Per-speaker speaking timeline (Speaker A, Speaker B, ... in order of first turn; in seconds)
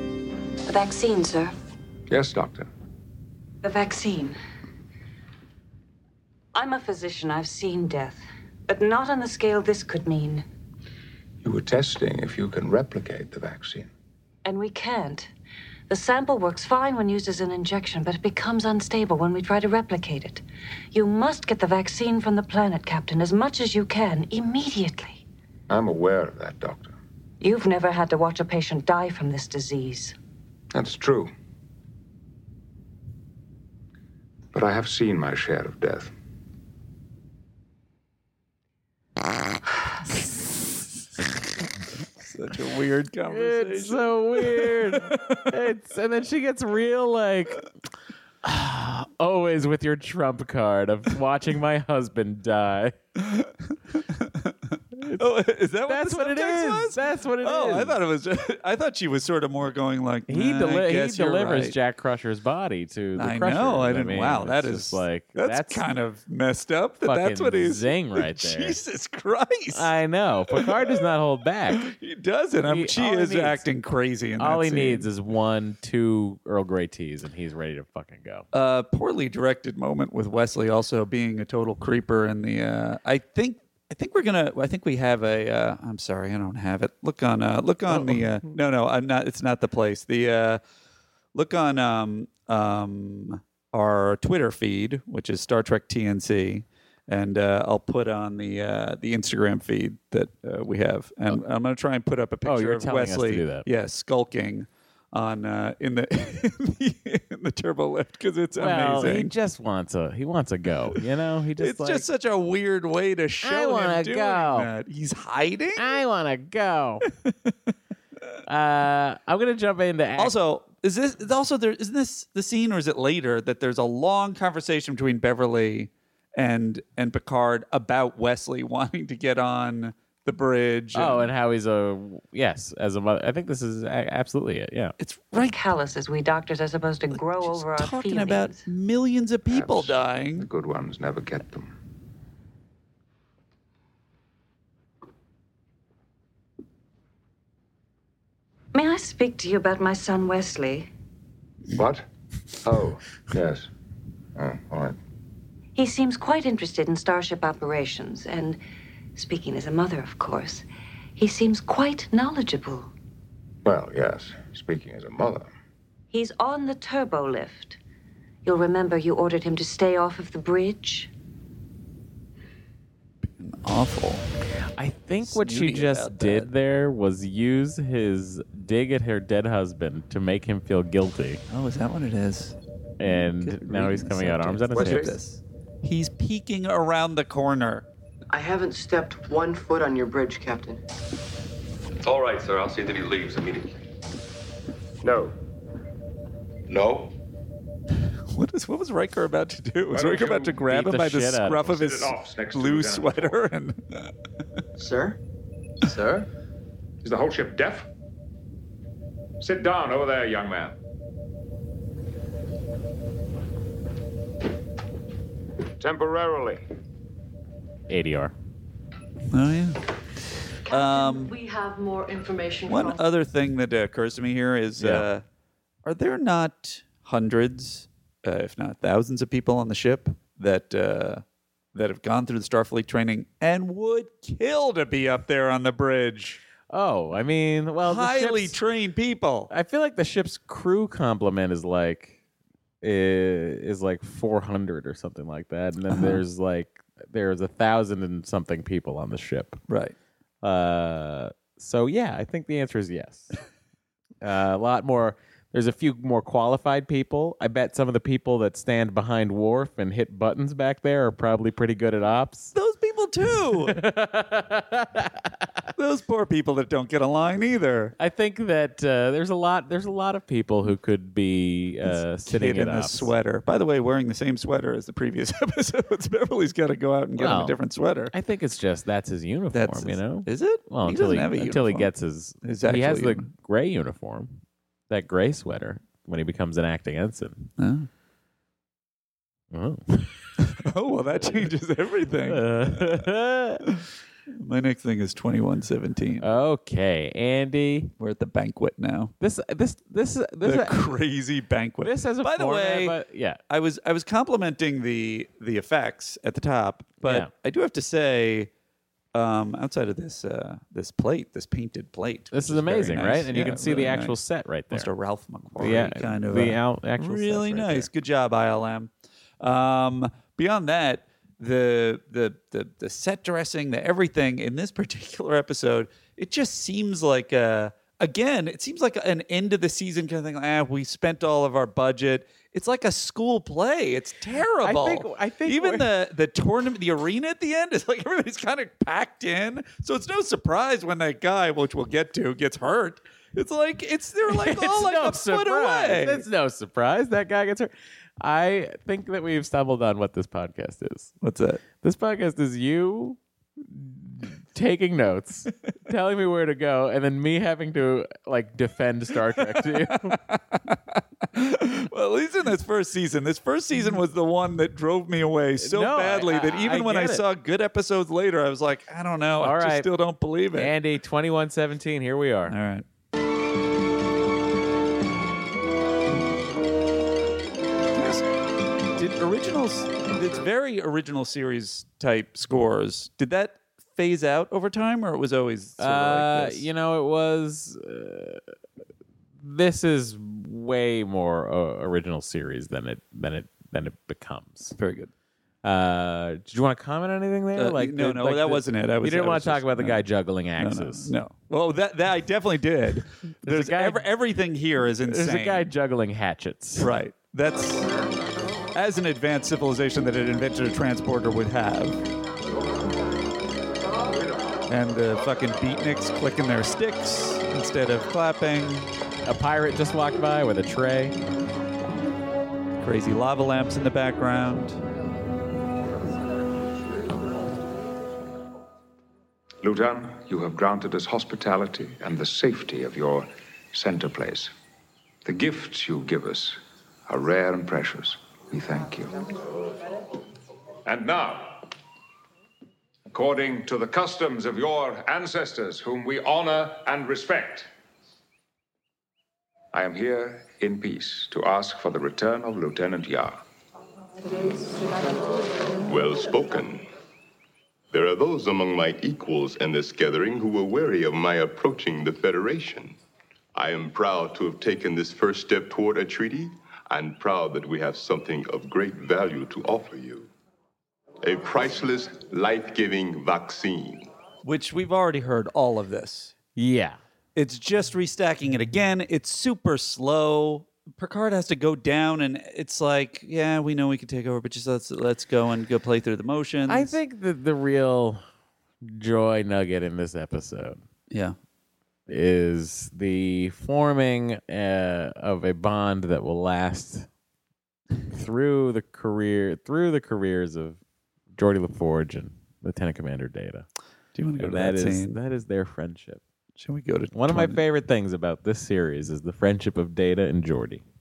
Speaker A: 0.7-1.5, 3.6-4.4, 6.5-10.4, 14.4-15.3, 15.9-20.4, 20.9-25.2, 27.4-30.1, 135.4-138.6, 148.7-150.9, 155.7-158.6, 159.1-162.9, 166.1-167.8, 168.4-171.1
Speaker B: 2.1-2.7, 11.4-13.9, 25.7-26.9, 30.7-31.3, 34.5-36.1, 139.5-141.7, 151.7-152.0, 152.6-153.7, 154.3-155.0, 163.6-165.5, 184.8-185.0, 195.0-195.3, 199.9-200.6, 201.7-203.4, 207.0-207.9, 209.4-210.7, 215.8-216.6, 429.6-434.5, 435.2-439.2, 440.9-441.7, 443.1-447.7, 449.7-453.4
Speaker C: 42.2-45.5, 53.1-61.8, 63.1-69.9, 70.5-71.0, 71.7-75.1, 78.5-90.6, 91.3-109.3, 111.6-116.0, 117.1-117.5, 120.2-131.3, 135.0-135.6, 137.1-140.5, 173.2-174.2, 175.2-176.5, 181.5-187.9, 198.3-204.1, 219.3-219.8, 220.7-221.3, 222.7-225.2, 225.8-236.4, 237.8-239.5, 245.9-246.2, 249.7-249.9, 262.5-263.8, 265.8-267.9, 271.8-278.1, 279.5-281.9, 282.4-283.3, 287.6-287.9, 290.4-293.1, 293.6-296.3, 298.0-299.1, 300.4-303.0, 303.5-308.5, 309.1-314.2, 314.7-346.2, 351.2-351.6, 359.4-370.7, 372.5-372.9, 377.9-378.3, 378.8-386.6, 394.8-395.1, 397.5-400.0, 400.6-405.7, 406.8-407.9, 408.7-412.0, 414.7-418.9, 422.8-424.8, 474.4-476.3, 477.3-487.0, 491.1-491.3, 504.1-505.2, 506.6-507.6
Speaker D: 43.3-47.6, 48.4-53.0, 55.0-55.3, 55.9-58.0, 60.3-65.8, 67.0-68.8, 69.7-71.8, 72.7-73.6, 74.4-78.5, 102.4-103.7, 108.6-112.0, 113.4-114.7, 115.8-117.0, 118.5-120.4, 130.9-134.9, 174.8-181.4, 183.0-185.1, 200.7-201.7, 217.9-218.3, 224.8-225.1, 236.7-238.6, 239.5-242.2, 242.8-249.6, 250.4-253.3, 254.2-262.5, 263.5-265.3, 268.0-273.1, 277.2-277.6, 278.1-287.5, 289.5-290.2, 292.3-293.6, 296.2-297.9, 299.2-300.9, 301.8-303.4, 307.0-307.3, 312.3-314.9, 315.6-317.9, 334.6-335.9, 344.3-351.1, 351.8-360.2, 365.6-367.2, 369.4-369.9, 370.5-372.6, 385.8-388.4, 389.4-394.8, 395.6-401.1, 403.4-404.1, 405.0-406.9, 419.2-421.1, 476.6-477.0, 486.7-488.2, 488.8-490.8, 492.1-497.1, 498.1-500.8, 501.3-503.7, 504.4-506.2, 507.1-510.8
Speaker E: 188.3-190.8, 204.8-205.2, 205.8-206.2
Speaker F: 192.0-193.8, 196.7-197.1
Speaker G: 220.7-223.0
Speaker H: 455.8-456.9, 457.9-463.0, 463.5-470.3, 471.2-474.1